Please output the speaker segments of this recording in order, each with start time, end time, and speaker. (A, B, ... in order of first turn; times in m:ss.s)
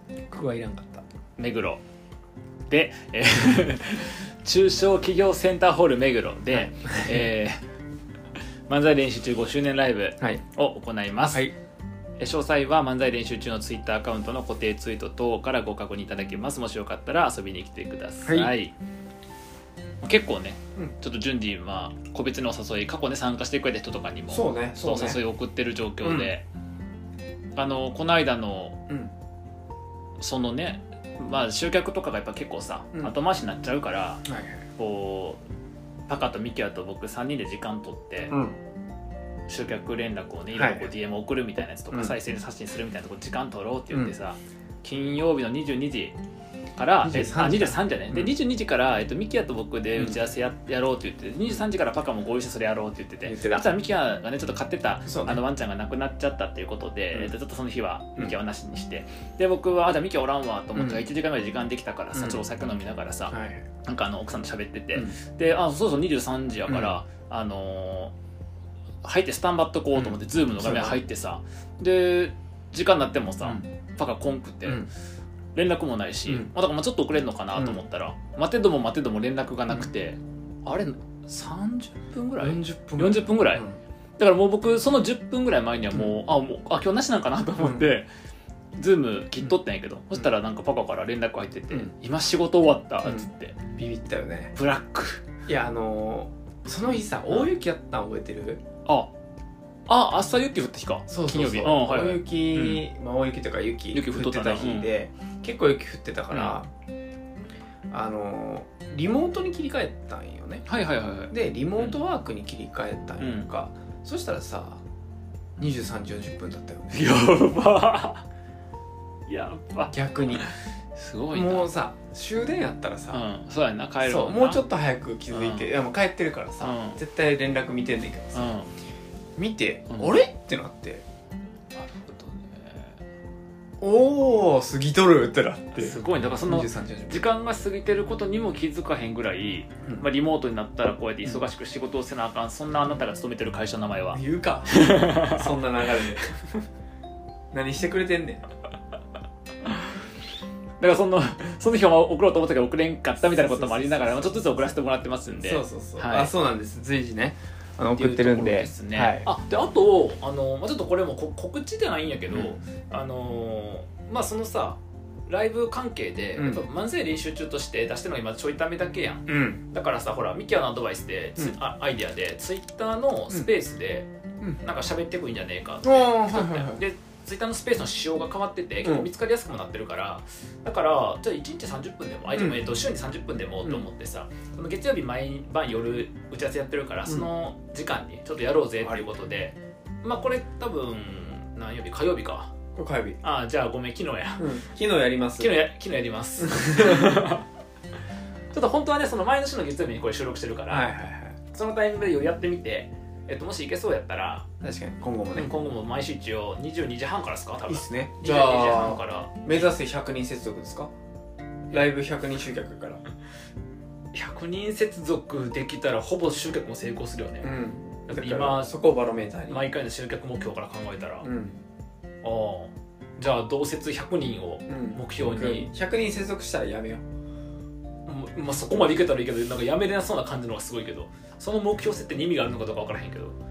0:00.3-0:01.0 A
0:01.4-0:01.8 B
0:02.7-0:07.6 B
0:06.5-0:07.3 A
0:08.7-0:11.5 B
0:12.2-0:18.7 B
0:18.2-0:18.5 A
0:20.0-0:26.4 B
0:24.3-0:25.2 A
0:26.0-0:26.3 A
0:27.6-0:28.8 B
0:30.2-0:34.2 B
0:34.2-0:34.6 A
0:34.8-0:35.4 B
0:36.1-0:38.3 B
0:38.3-0:38.6 A
0:39.5-0:46.2 B
0:40.5-0:40.9 A
0:41.9-0:42.2 A
0:46.8-1:08.1 B
0:47.0-0:48.3 A
0:50.0-0:50.2 A
0:53.2-0:53.7 A
0:55.0-0:55.4 A
1:00.7-1:01.0 A
1:02.1-1:02.4 A
1:03.3-1:03.6 A
1:06.7-1:07.0 A
1:09.0-1:14.8 B
1:09.9-1:11.0 A
1:14.6-1:14.9 A
1:15.5-1:23.6 B
1:17.5-1:17.8 A
1:22.4-1:23.8 A
1:24.2-1:28.1 B
1:25.9-1:26.2 A
1:27.6-1:27.9 A
1:28.8-1:33.6 B
1:33.0-1:34.5 A
1:34.5-1:35.2 B
1:35.5-1:38.6 A
1:39.9-1:42.8 B
1:41.1-1:46.7 A
1:43.9-1:44.9 B
1:46.3-1:46.6 B
1:47.9-1:50.7 A
1:50.7-1:52.0 B
1:51.3-1:54.8 A
1:53.2-1:53.5 B
1:55.6-1:57.2 A
1:56.9-1:58.2 B
1:59.3-2:01.7 B
1:59.9-2:00.4 A
2:01.3-2:03.3 A
2:03.1-2:04.6 B
2:04.0-2:08.5 A
2:05.3-2:05.7 B
2:06.6-2:07.0 B
2:08.3-2:08.7 B
2:09.4-2:11.0 A
2:11.7-2:12.9 B
2:13.8-2:17.3 A
2:15.7-2:26.3 B
2:24.1-2:26.3 A
2:27.5-2:28.4 A
2:30.8-2:36.3 B
2:33.2-2:34.7 A
2:35.4-2:39.3 A
2:38.0-2:54.1 B
2:42.3-2:42.6 A
2:46.4-2:46.6 A
2:49.3-2:49.6 A
2:54.6-3:12.5 B
2:55.8-2:56.8 A
2:58.8-2:59.1 A
3:02.3-3:02.6 A
3:03.6-3:03.9 A
3:08.8-3:09.1 A
3:12.7-3:13.2 A
3:13.2-3:14.6 B
3:14.4-3:15.6 A
3:15.4-3:17.4 B
3:16.4-3:17.2 A
3:18.5-3:20.9 B
3:20.7-3:21.4 A
3:21.5-3:24.4 B
3:24.6-3:25.5 A
3:25.3-3:29.7 B
3:27.6-3:30.9 A
3:31.7-3:33.0 A
3:34.1-3:37.5 B
3:37.4-3:39.6 A
3:38.1-3:38.7 B
3:39.5-3:41.3 B
3:41.2-3:41.6 A
3:42.2-3:45.7 B
3:44.7-3:47.0 A
3:48.0-3:53.4 B